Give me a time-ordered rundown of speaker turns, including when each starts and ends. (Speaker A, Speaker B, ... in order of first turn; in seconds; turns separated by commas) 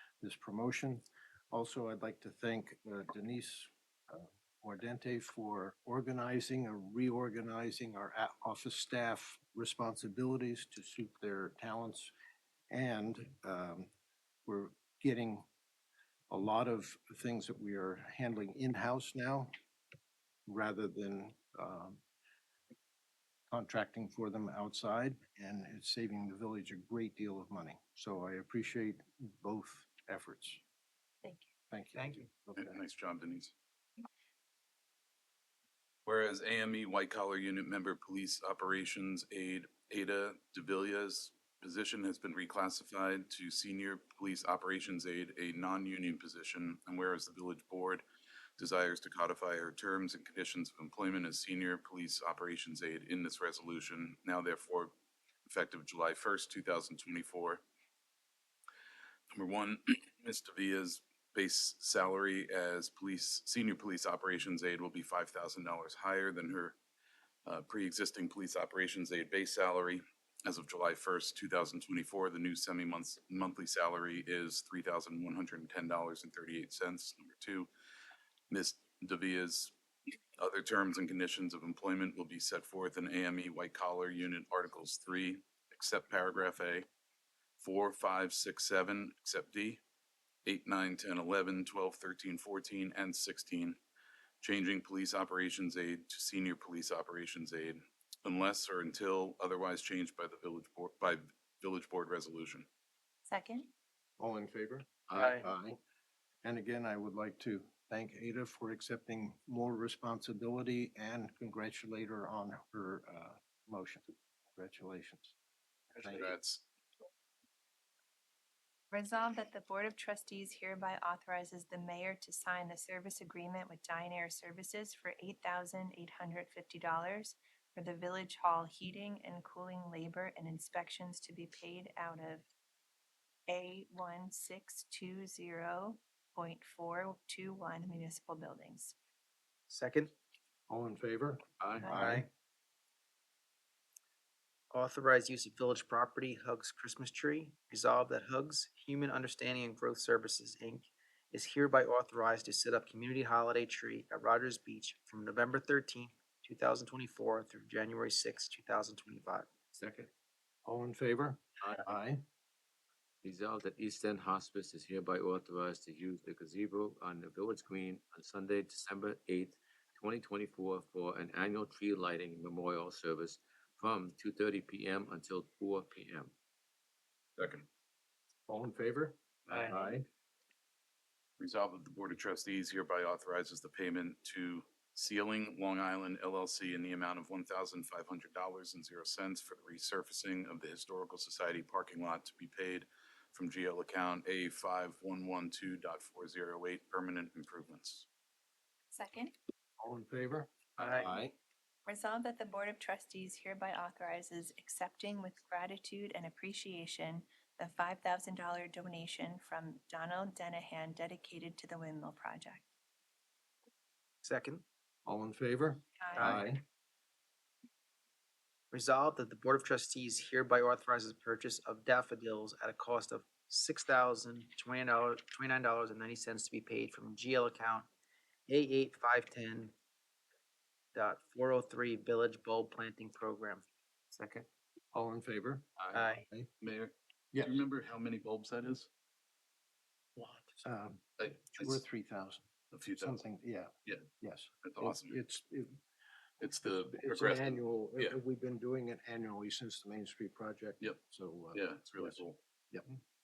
Speaker A: 0.2-12.1, Speaker A: 12.7-13.9, Speaker A: 14.4-15.5, Speaker A: 16.3-19.5, Speaker A: 20.4-22.0, Speaker A: 23.5-30.6, Speaker B: 31.2-31.5, Speaker A: 31.7-32.8, Speaker C: 31.9-32.2, Speaker D: 32.6-33.5, Speaker D: 36.0-48.0, Speaker D: 48.6-54.9, Speaker D: 55.5-57.6, Speaker D: 59.3-66.8, Speaker D: 67.4-77.7, Speaker D: 78.5-79.7, Speaker D: 80.4-86.9, Speaker D: 87.6-89.8, Speaker D: 90.4-93.8, Speaker D: 94.4-102.7, Speaker B: 103.3-103.7, Speaker A: 104.2-105.8, Speaker C: 105.1-105.4, Speaker A: 106.4-115.3, Speaker D: 116.0-116.6, Speaker A: 116.0-116.3, Speaker B: 118.9-132.4, Speaker B: 133.5-138.9, Speaker C: 139.7-140.1, Speaker A: 140.7-142.3, Speaker E: 141.6-141.9, Speaker B: 141.8-142.2, Speaker C: 141.9-142.3, Speaker C: 144.7-159.5, Speaker E: 159.7-160.1, Speaker A: 160.6-162.2, Speaker E: 163.2-176.3, Speaker D: 177.4-177.7, Speaker A: 178.5-180.0, Speaker D: 181.4-198.1, Speaker B: 198.9-199.3, Speaker A: 199.8-201.3, Speaker C: 200.8-201.0, Speaker B: 201.8-212.7, Speaker C: 214.2-214.6, Speaker A: 215.0-216.6, Speaker B: 216.0-216.3, Speaker C: 216.1-216.5, Speaker C: 218.7-227.9, Speaker C: 228.5-229.7, Speaker C: 230.9-233.6, Speaker E: 234.1-234.5, Speaker A: 234.9-235.7, Speaker E: 235.8-236.1, Speaker C: 235.9-236.2, Speaker D: 236.6-238.9, Speaker C: 240.2-240.4, Speaker A: 240.6-242.4, Speaker D: 241.2-241.8, Speaker D: 242.7-243.2, Speaker A: 243.0-245.8, Speaker D: 244.6-245.2, Speaker D: 246.4-248.2, Speaker A: 246.7-252.9, Speaker D: 251.5-252.4